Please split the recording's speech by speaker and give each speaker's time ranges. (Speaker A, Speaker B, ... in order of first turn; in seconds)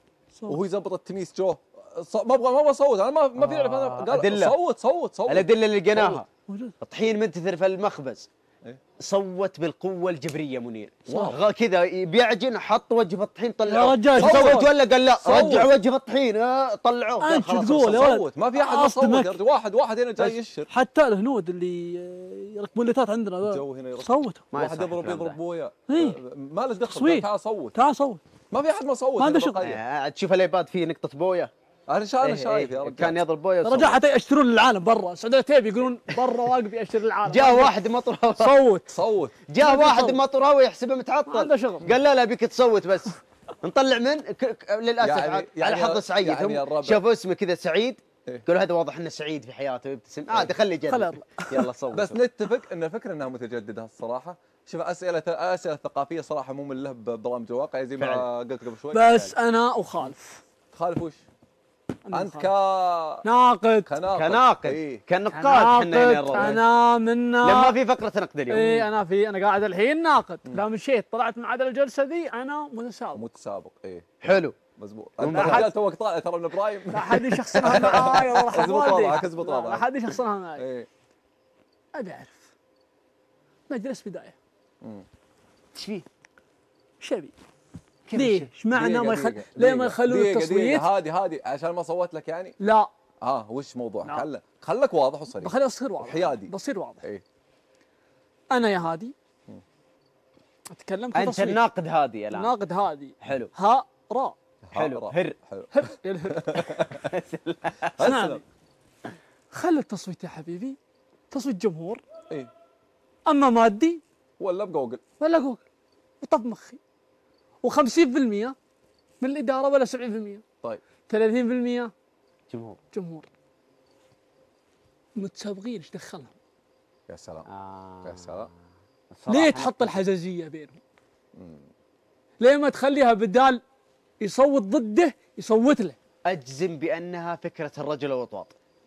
Speaker A: 0.5-6.2, 11.1-11.4, 14.2-15.7, 17.8-20.7, 23.4-27.8, 28.5-29.8, 31.9-33.2, 38.9-39.5, 45.0-47.0, 51.9-59.1, 60.7-61.2, 62.1-63.2, 63.9-65.0, 66.3-66.6, 73.1-79.9, 80.6-80.9, 88.7-92.6, 93.2-97.2, 104.7-107.1, 108.0-108.4, 114.4-115.0, 127.1-127.5, 128.0-128.5, 131.4-131.7
Speaker B: 3.4-4.5, 5.3-6.3, 6.8-8.3, 9.0-18.1, 24.5-25.4, 29.6-31.5, 32.2-34.0, 37.2-38.6, 39.5-52.2, 58.0-58.3, 64.1-66.6, 67.4-68.8, 74.2-74.5, 75.2-75.7, 85.8-86.1, 88.1-88.5, 101.1-102.5, 103.2-103.5, 104.7-105.4, 106.5-108.1, 122.5-122.8, 127.5-128.5, 129.1-130.0, 136.2-138.5
Speaker C: 6.5-6.7, 13.7-14.6, 17.2-19.4, 20.2-24.4, 25.9-26.2, 26.8-28.2, 29.2-29.7, 33.6-37.8, 38.3-39.0, 39.6-40.2, 41.3-41.9, 50.9-51.7, 58.9-60.4, 62.1-62.5, 63.2-63.9, 65.3-67.8, 68.5-73.2, 75.3-75.7, 76.9-80.7, 82.0-82.5, 83.7-84.3, 87.0-87.3, 88.1-90.9, 92.6-92.9, 95.4-97.0, 98.5-99.2, 100.7-101.6, 102.3-104.4, 105.7-106.6, 108.0-108.4, 109.5-110.8, 111.3-112.0, 113.3-114.0, 115.2-115.6, 116.2-116.8, 117.6-118.6, 119.2-120.4, 121.1-121.9, 122.9-123.3, 125.2-126.3, 129.3-130.8, 132.4-133.6, 134.2-136.0